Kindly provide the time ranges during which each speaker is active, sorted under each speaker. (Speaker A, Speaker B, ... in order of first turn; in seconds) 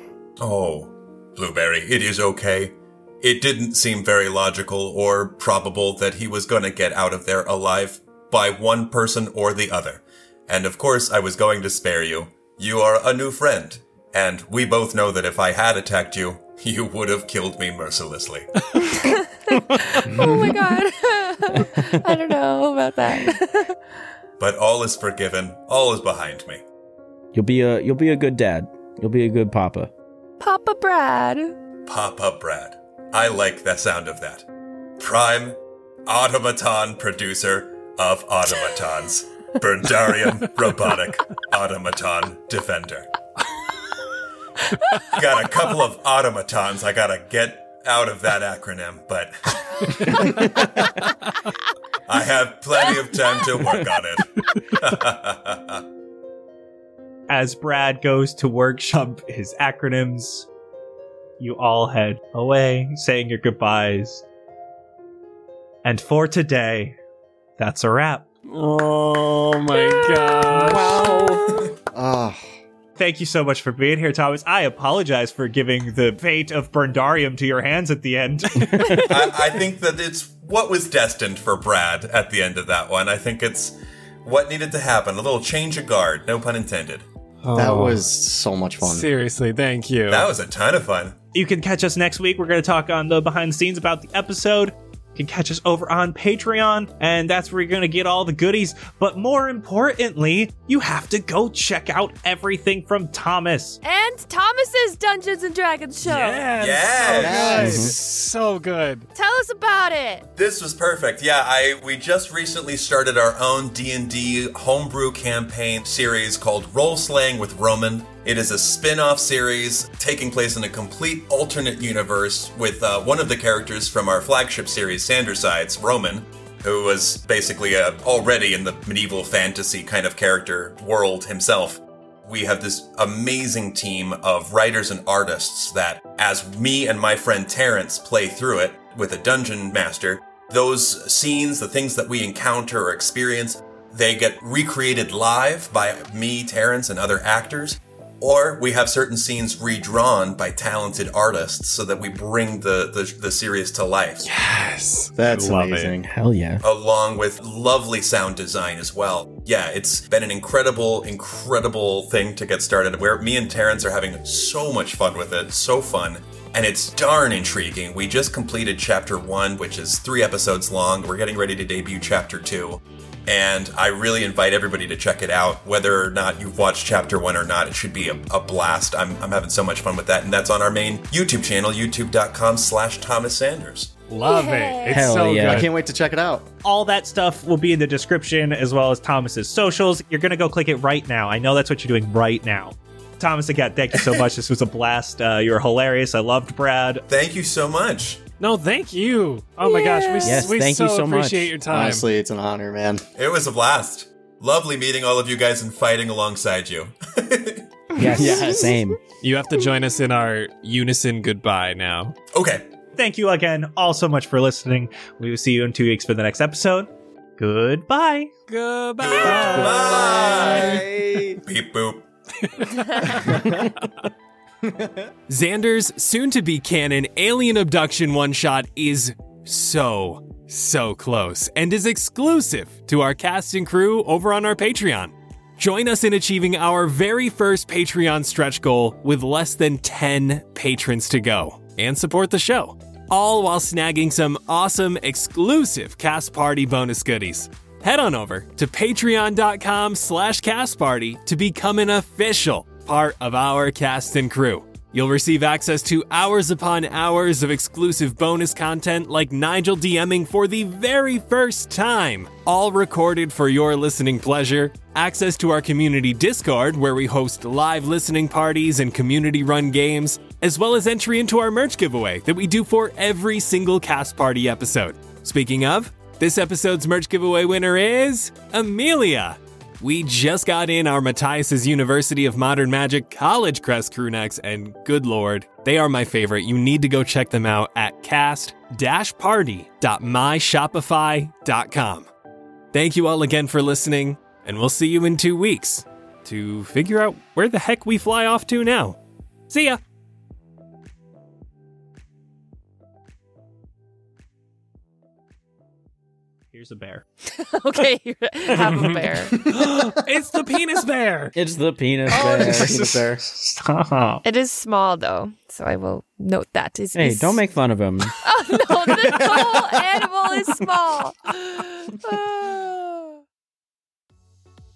Speaker A: 0.4-18.4, 24.4-26.6, 31.9-34.4, 35.0-43.1, 45.1-49.3, 52.1-55.8, 79.0-87.0, 90.1-91.1, 106.5-107.7, 110.3-154.3, 156.6-183.9, 197.1-198.2, 203.2-207.7, 212.3-212.6, 219.0-222.0
Speaker B: 18.9-23.8, 30.4-31.5, 103.8-107.3, 109.1-110.2, 184.1-185.0, 199.6-200.4, 307.3-309.4, 312.1-312.4, 314.2-317.4, 318.2-323.2
Speaker C: 21.7-22.1, 27.3-29.9, 70.5-71.6, 107.5-107.9, 156.1-156.6, 184.9-185.7, 200.2-201.5, 207.9-209.0, 220.6-221.3, 311.3-313.0, 316.9-318.2
Speaker D: 57.3-60.5, 61.4-64.2, 65.8-67.0, 67.6-68.2, 73.0-79.0, 91.3-103.8, 186.6-197.0, 212.9-218.3, 219.2-219.8, 306.5-307.0, 313.4-314.2
Speaker E: 68.5-71.0, 87.4-88.0, 88.8-90.3, 106.0-109.1, 154.2-155.9, 184.1-185.7, 198.4-202.1, 209.2-212.2, 218.5-220.4, 222.9-223.4, 225.3-292.1, 292.7-299.0, 299.5-299.8, 308.6-311.3
Speaker F: 71.9-72.4, 87.5-89.1, 107.2-107.9, 155.2-156.1, 185.3-186.5, 201.7-203.0, 223.3-223.7, 224.6-225.1, 309.4-309.8, 312.1-313.2